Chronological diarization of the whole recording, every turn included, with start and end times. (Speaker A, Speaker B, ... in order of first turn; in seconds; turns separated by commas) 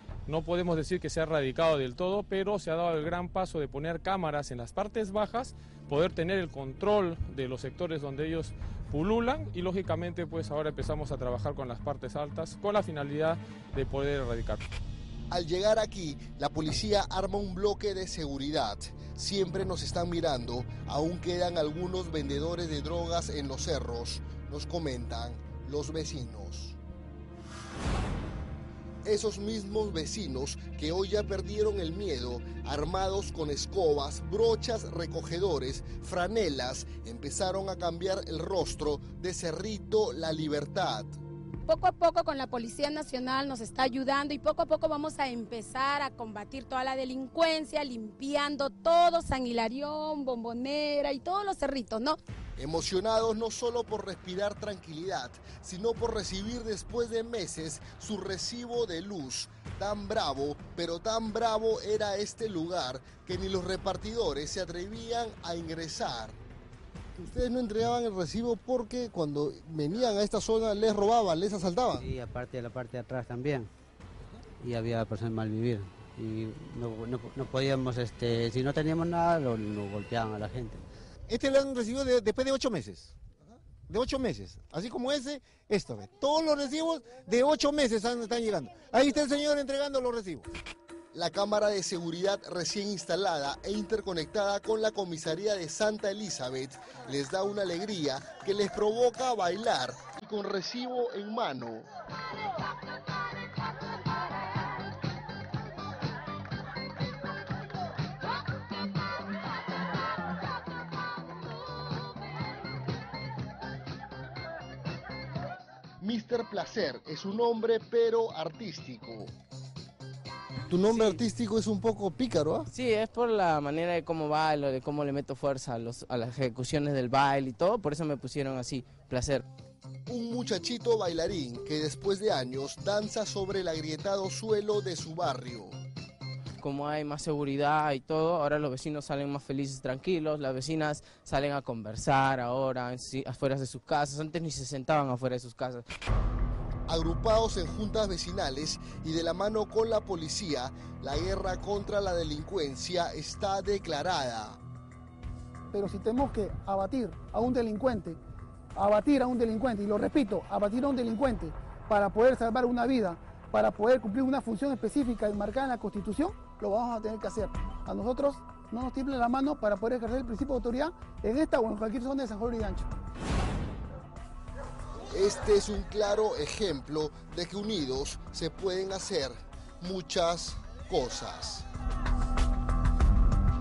Speaker A: 0.3-14.6, Speaker B: 15.3-26.8, Speaker B: 29.1-41.2, Speaker C: 41.7-52.2, Speaker B: 52.6-66.4, Speaker B: 67.2-72.1, Speaker D: 72.0-73.7, Speaker D: 74.6-80.8, Speaker E: 81.3-83.1, Speaker E: 83.9-90.5, Speaker B: 91.1-101.9, Speaker B: 116.0-119.3, Speaker B: 120.7-122.7, Speaker F: 120.9-121.2, Speaker F: 122.7-129.4, Speaker B: 130.1-135.8, Speaker F: 136.6-145.8, Speaker B: 146.9-154.6, Speaker G: 155.7-158.2, Speaker G: 158.8-172.9, Speaker B: 175.1-181.7